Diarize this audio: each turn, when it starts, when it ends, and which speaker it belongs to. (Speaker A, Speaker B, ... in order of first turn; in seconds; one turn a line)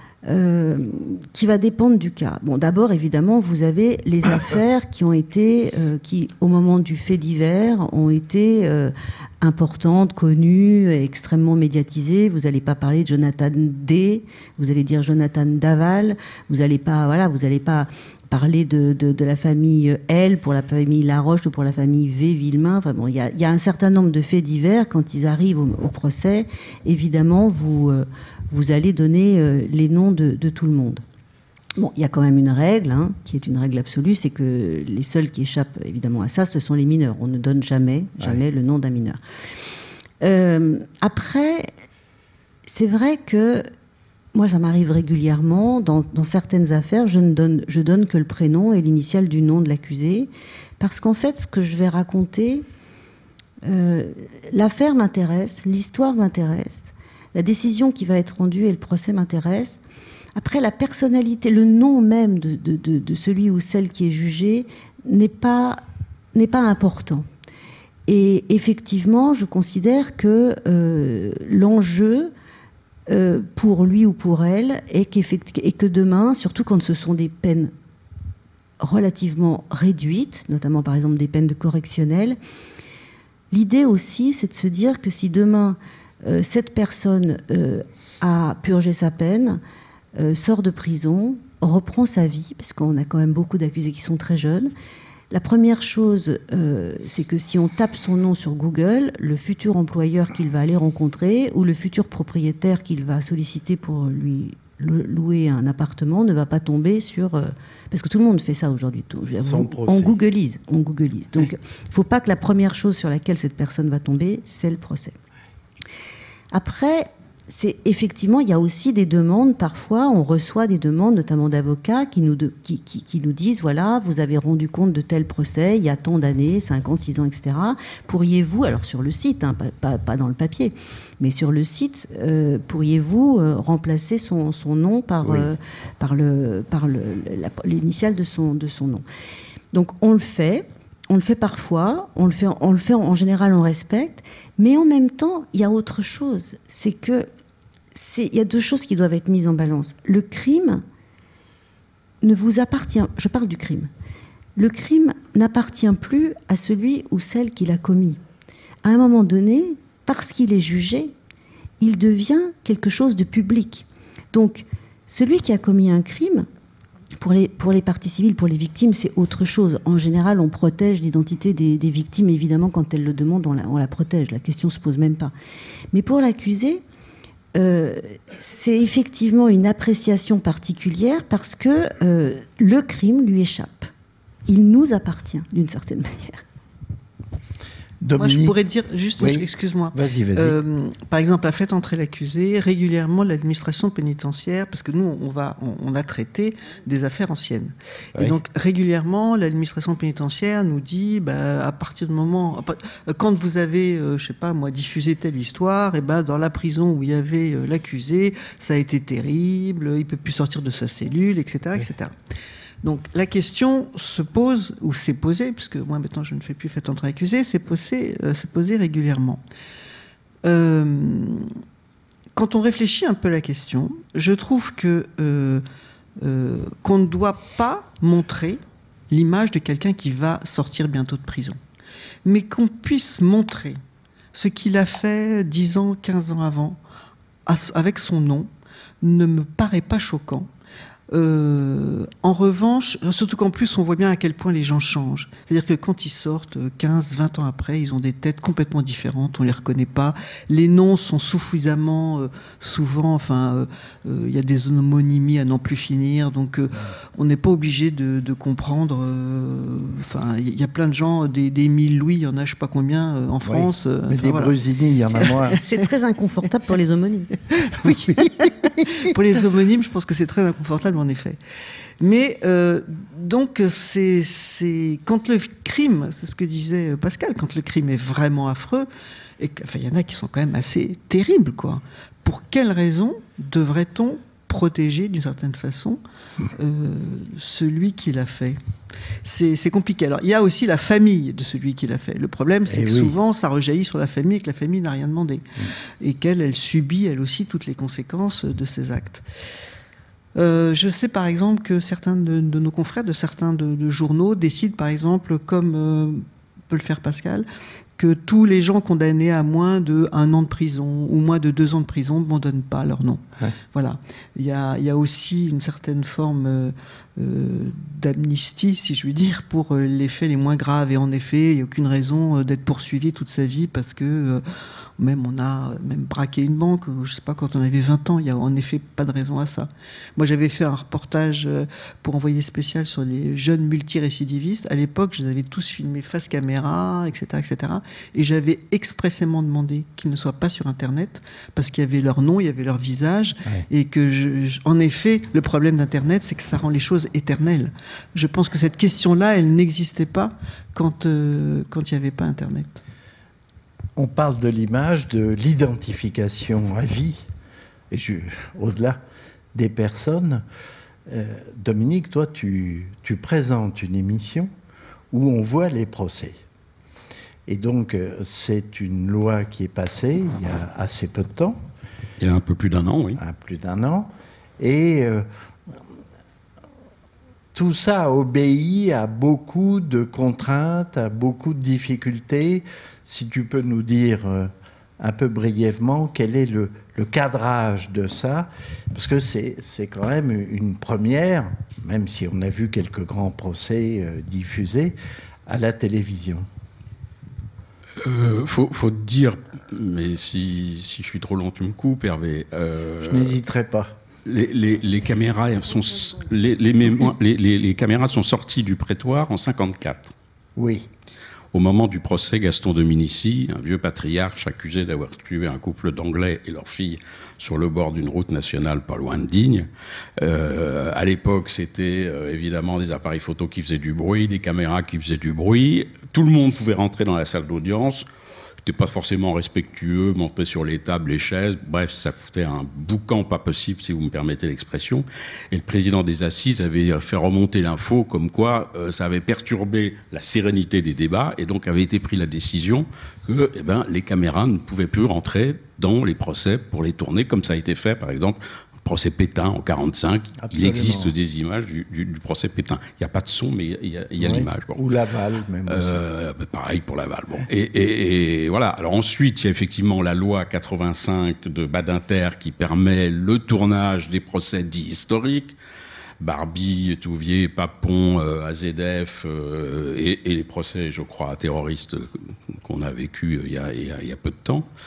Speaker A: 0.2-31.0
Speaker A: 31.8-39.2
Speaker A: 40.2-41.7
Speaker A: 42.7-43.7
Speaker A: 44.3-52.6
Speaker A: 53.6-59.8
Speaker A: 60.4-65.8
Speaker A: 66.3-67.3
Speaker A: 68.1-72.3
Speaker A: 73.1-77.7
Speaker A: 78.8-82.4
Speaker A: 83.5-89.6
Speaker A: 90.2-94.7
Speaker A: 95.3-115.2
Speaker B: 109.4-110.2
Speaker A: 116.5-139.1
Speaker B: 135.2-135.5
Speaker A: 139.7-147.3
Speaker A: 147.9-150.8
Speaker A: 152.2-153.9
Speaker A: 154.6-158.2
Speaker A: 158.8-161.1
Speaker A: 161.8-166.5
Speaker A: 167.2-175.3
Speaker A: 175.9-176.8
Speaker A: 177.6-183.9
Speaker A: 184.5-186.4
Speaker B: 188.0-188.6
Speaker C: 188.2-212.2
Speaker B: 189.2-190.6
Speaker C: 212.8-219.4
Speaker C: 220.4-221.5
Speaker C: 222.3-225.6
Speaker C: 226.2-231.6
Speaker C: 232.2-233.8
Speaker C: 234.3-236.8
Speaker C: 237.5-238.5
Speaker C: 239.0-240.5
Speaker C: 241.1-264.5
Speaker B: 263.4-265.6
Speaker C: 265.1-265.6
Speaker A: 265.6-267.9
Speaker B: 267.8-269.1
Speaker C: 269.0-271.4
Speaker C: 272.0-278.9
Speaker C: 279.4-286.0
Speaker C: 286.5-288.6
Speaker C: 289.2-295.4
Speaker B: 292.7-293.1
Speaker C: 296.0-299.2
Speaker C: 300.4-307.5
Speaker C: 308.0-324.4
Speaker C: 325.0-352.8
Speaker B: 354.0-357.3
Speaker B: 357.9-359.0
Speaker B: 359.5-360.4
Speaker B: 361.1-364.5
Speaker B: 365.1-366.4
Speaker B: 367.5-371.6
Speaker D: 372.2-373.2
Speaker B: 373.2-375.8
Speaker B: 377.5-396.5
Speaker D: 398.0-403.4
Speaker B: 403.0-404.0
Speaker D: 404.2-410.1
Speaker B: 410.6-410.9
Speaker D: 411.5-428.1
Speaker D: 428.6-454.9
Speaker B: 450.4-451.1
Speaker B: 454.2-456.0
Speaker D: 455.7-465.6
Speaker D: 466.2-474.7